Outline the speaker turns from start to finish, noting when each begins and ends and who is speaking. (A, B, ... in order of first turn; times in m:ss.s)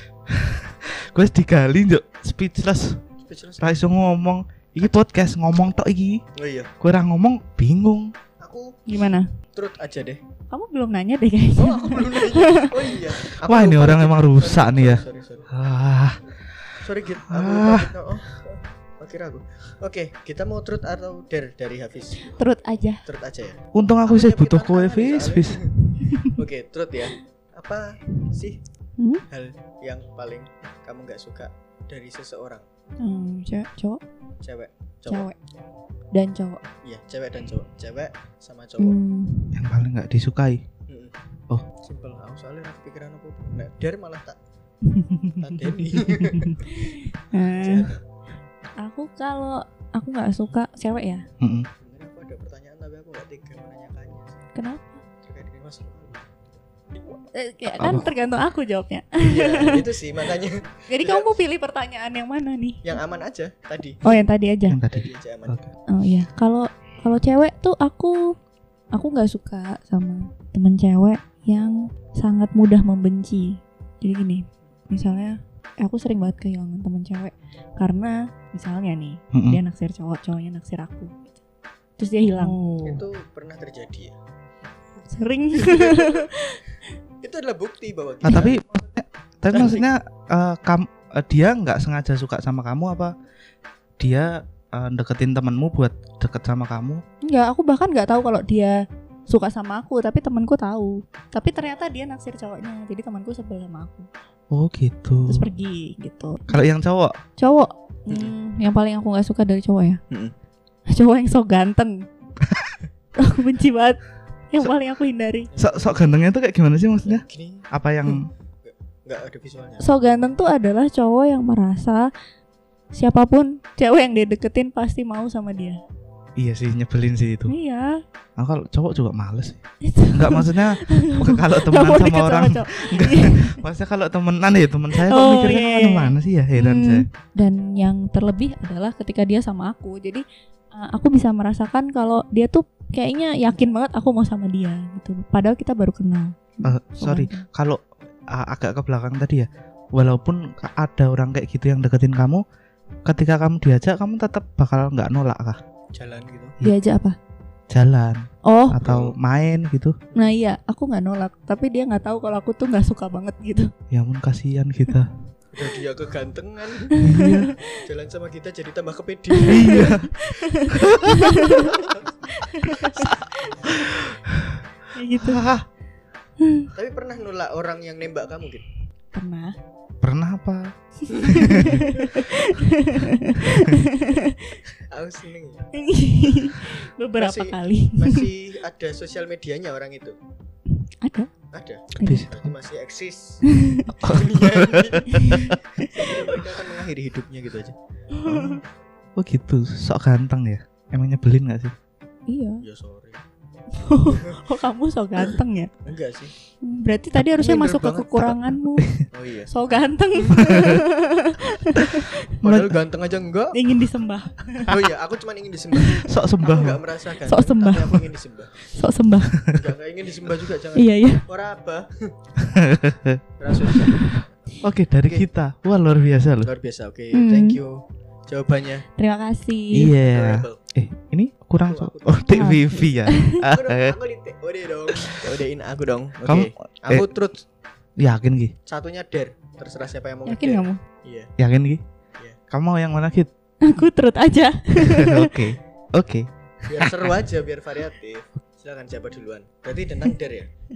0:00.3-0:03.0 A
0:03.2-0:03.8 B
0:03.6-0:06.2 A
0:06.4-0:06.7 B
0:06.8-0:08.1 A
0:08.4-0:08.8 B
0:08.9-0:09.3 C
0:09.5-0:10.2 B
0:10.5-0:13.0 C
0:11.6-0:15.5 B
0:13.4-0:17.9 A
0:16.8-0:22.4 B
0:22.2-0:23.0 C
0:23.0-0:25.7 B
0:23.7-0:25.7 A
0:26.0-0:26.4 C
0:26.3-0:28.6 B
0:29.0-0:29.2 C
0:29.3-0:32.6 B
0:33.0-0:34.0 C
0:34.4-0:35.3 B
0:35.1-0:35.3 C
0:36.1-0:36.6 C
0:36.8-0:39.0 B
0:38.8-0:39.6 C
0:39.5-0:40.6 A
0:40.9-0:41.1 B
0:41.7-0:44.4 B
0:44.8-0:47.9 C
0:45.4-0:46.9 B
0:47.4-0:48.0 B
0:48.8-0:51.2 C
0:51.4-0:51.7 A
0:51.8-0:54.5 B
0:54.5-0:55.0 C
0:55.2-0:56.6 B
0:57.1-0:59.9 C
0:57.8-0:58.1 A
0:59.2-1:01.4 B
1:00.9-1:03.0 C
1:02.8-1:04.2 B
1:04.0-1:04.8 C
1:04.7-1:05.7 A
1:04.9-1:05.6 B
1:05.9-1:08.4 C
1:08.9-1:21.2 C
1:19.3-1:19.6 A
1:22.0-1:22.6 C
1:22.4-1:23.0 A
1:22.8-1:24.1 B
1:25.1-1:26.8 C
1:25.5-1:26.3 B
1:27.2-1:28.6 B
1:28.2-1:33.1 A
1:28.3-1:28.5 C
1:29.5-1:29.9 B
1:34.0-1:37.0 A
1:37.2-1:44.1 C
1:44.5-1:45.4 A
1:45.3-1:46.6 C
1:46.5-1:47.2 A
1:47.4-1:50.0 C
1:48.1-1:48.4 B
1:50.9-1:52.0 C
1:53.2-1:54.0 C
1:54.5-1:55.5 C
1:55.5-1:56.1 B
1:55.6-1:58.3 A
1:57.0-1:59.9 B
1:59.8-2:02.1 C
2:02.9-2:05.8 C
2:06.4-2:07.5 A
2:07.5-2:08.0 C
2:08.4-2:09.6 A
2:09.8-2:13.6 C
2:10.1-2:17.1 A
2:14.9-2:27.4 C
2:26.6-2:32.4 A
2:33.1-2:35.6 A
2:35.9-2:36.6 B
2:36.6-2:37.2 C
2:37.7-2:40.0 A
2:38.4-2:38.8 C
2:38.8-2:39.2 B
2:40.1-2:43.7 C
2:43.9-2:45.1 A
2:45.5-2:46.9 B
2:46.9-2:47.6 C
2:47.0-2:47.5 A
2:47.8-2:50.0 B
2:49.3-2:51.8 C
2:49.4-2:50.2 A
2:50.7-2:51.5 A
2:51.4-2:52.3 B
2:52.3-2:53.8 C
2:53.7-2:54.6 A
2:54.9-2:55.5 C
2:55.1-2:55.7 A
2:56.4-2:56.7 C
2:56.7-2:58.6 B
2:59.1-2:59.5 C
3:00.0-3:01.9 A
3:01.2-3:04.6 C
3:01.8-3:02.2 B
3:04.9-3:05.7 B
3:05.7-3:08.3 C
3:07.2-3:10.2 B
3:10.7-3:11.3 C
3:11.5-3:13.4 B
3:12.0-3:12.5 A
3:12.0-3:12.3 C
3:13.4-3:13.9 C
3:14.0-3:15.6 A
3:14.0-3:17.8 B
3:15.1-3:16.0 C
3:18.1-3:18.6 C
3:18.2-3:18.6 A
3:19.2-3:21.7 A
3:22.3-3:22.6 C
3:22.6-3:23.2 B
3:23.7-3:25.7 C
3:24.1-3:24.4 B
3:25.8-3:26.4 B
3:26.6-3:29.0 C
3:27.2-3:28.5 B
3:29.1-3:29.6 B
3:29.5-3:32.4 C
3:30.4-3:30.8 A
3:32.4-3:33.6 B
3:32.4-3:32.7 A
3:33.5-3:34.9 C
3:34.7-3:38.6 B
3:35.7-3:36.1 C
3:36.0-3:36.8 A
3:37.2-3:39.4 C
3:39.5-3:42.1 B
3:40.7-3:41.2 C
3:42.4-3:44.0 A
3:43.4-3:44.4 B
3:43.7-3:44.2 C
3:44.6-3:46.5 A
3:46.4-3:48.9 B
3:47.1-3:47.6 C
3:49.0-3:49.9 C
3:49.7-3:54.0 A
3:49.9-3:50.6 B
3:51.6-3:52.4 B
3:52.3-3:53.4 C
3:53.5-3:57.4 B
3:56.2-3:57.1 A
3:58.0-3:58.5 A
3:58.7-4:01.3 B
4:00.2-4:00.8 C
4:01.4-4:01.8 A
4:02.5-4:03.3 A
4:03.6-4:05.4 C
4:04.8-4:07.1 A
4:06.6-4:10.5 B